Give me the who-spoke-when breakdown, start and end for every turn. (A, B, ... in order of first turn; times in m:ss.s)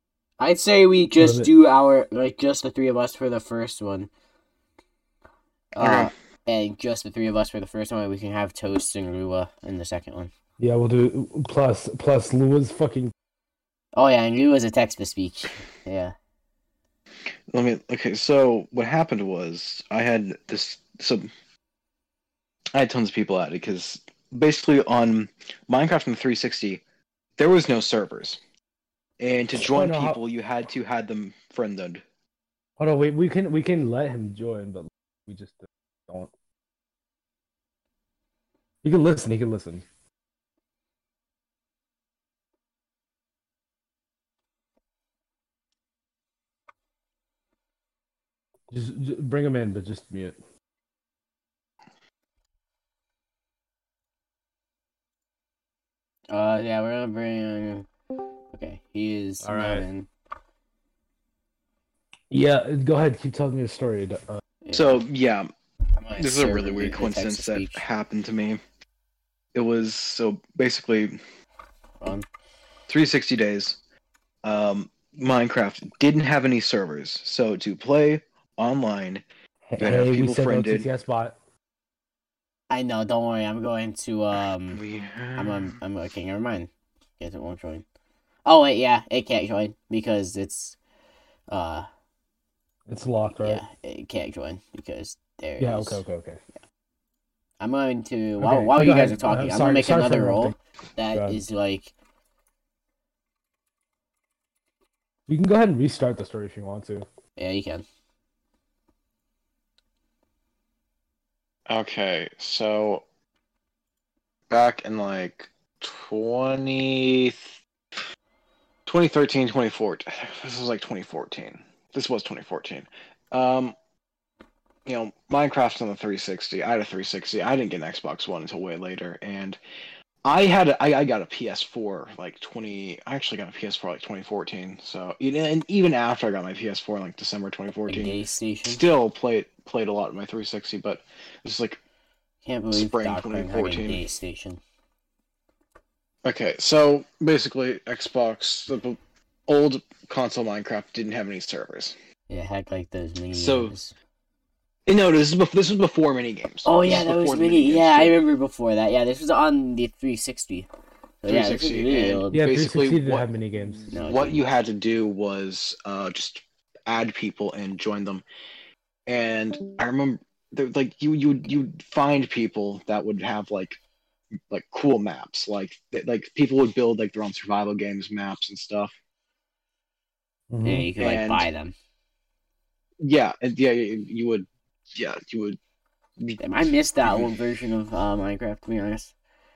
0:00.4-0:04.1 A
0:01.2-0:01.5 B
0:05.7-0:10.3 A
0:05.8-0:06.1 C
0:10.6-0:13.1 B
0:13.9-0:16.1 A
0:17.5-0:21.3 C
0:22.7-0:26.8 C
0:27.4-0:28.4 C
0:29.2-0:32.0 C
0:29.6-0:30.2 B
0:32.8-0:36.3 B
0:38.8-0:39.9 B
0:48.7-0:50.4 B
0:56.3-0:57.9 A
0:58.5-1:00.1 A
0:59.4-0:59.9 B
1:02.3-1:04.4 B
1:04.6-1:05.0 A
1:04.7-1:05.5 C
1:06.0-1:07.8 A
1:06.2-1:08.6 C
1:09.6-1:11.2 C
1:12.0-1:12.3 A
1:12.9-1:13.8 C
1:14.4-1:19.2 C
1:19.7-1:21.4 B
1:19.8-1:20.9 C
1:22.7-1:24.8 A
1:24.7-1:25.8 C
1:25.4-1:27.8 A
1:28.4-1:30.8 A
1:31.5-1:31.9 A
1:32.9-1:33.6 B
1:33.4-1:36.0 A
1:35.6-1:36.4 B
1:37.6-1:41.9 A
1:38.4-1:40.6 B
1:41.1-1:41.4 B
1:45.3-1:47.1 B
1:47.4-1:47.8 A
1:51.7-1:53.0 C
1:54.5-1:57.5 C
1:58.9-2:03.8 C
2:04.9-2:09.6 C
2:10.2-2:21.8 C
2:17.9-2:18.8 A
2:22.4-2:24.6 A
2:22.7-2:24.0 C
2:26.2-2:32.0 C
2:32.3-2:33.9 A
2:33.3-2:33.8 C
2:34.9-2:38.2 C
2:36.6-2:40.7 A
2:41.2-2:42.4 A
2:41.3-2:43.3 C
2:42.3-2:43.9 B
2:43.8-2:48.2 C
2:43.9-2:44.5 A
2:49.1-2:53.8 C
2:54.5-2:58.9 C
3:00.5-3:00.9 B
3:00.6-3:01.7 A
3:01.0-3:01.5 C
3:03.0-3:05.6 C
3:06.2-3:07.3 C
3:06.4-3:09.1 A